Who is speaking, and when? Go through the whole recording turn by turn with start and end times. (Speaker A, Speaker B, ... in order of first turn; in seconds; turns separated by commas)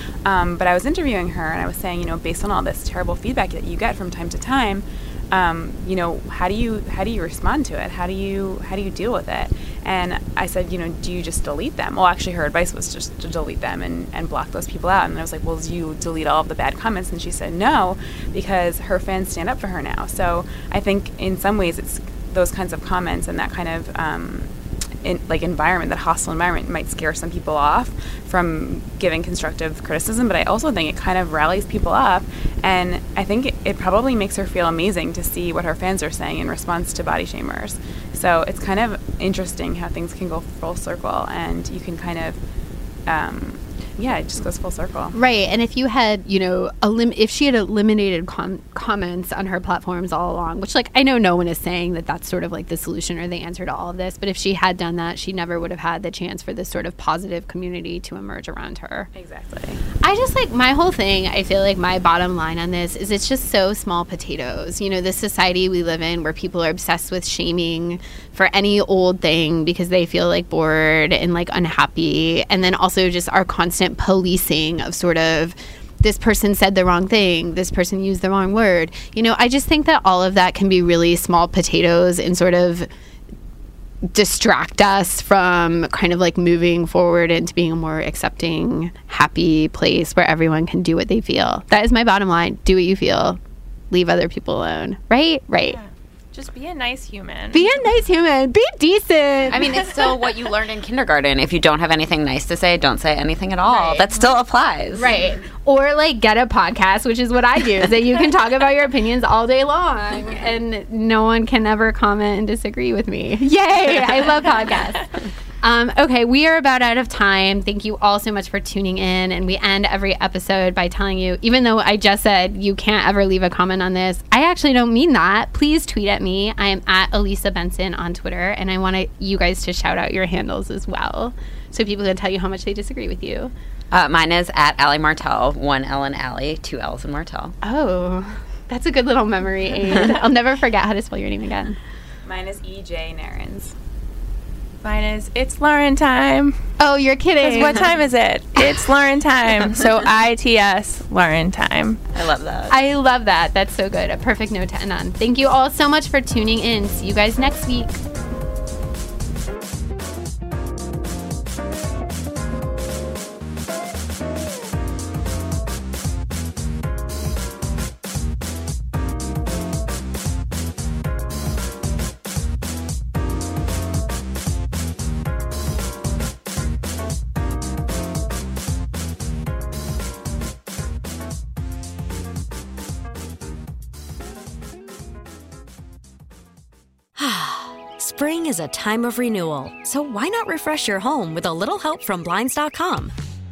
Speaker A: 0.2-24.5, Speaker A: 25.0-42.4, Speaker A: 43.1-45.1, Speaker B: 45.1-59.1, Speaker A: 59.1-59.8, Speaker B: 60.0-82.9, Speaker B: 84.0-93.4, Speaker B: 93.9-95.8, Speaker C: 95.7-97.8, Speaker B: 97.5-99.9, Speaker D: 99.5-105.1, Speaker B: 103.7-104.0, Speaker B: 104.9-115.1, Speaker B: 115.6-133.5, Speaker D: 133.9-137.6, Speaker B: 137.6-141.8, Speaker A: 142.2-143.7, Speaker C: 144.8-146.6, Speaker B: 146.8-147.9, Speaker C: 147.4-152.0, Speaker D: 152.1-152.8, Speaker B: 152.7-158.0, Speaker E: 187.2-193.1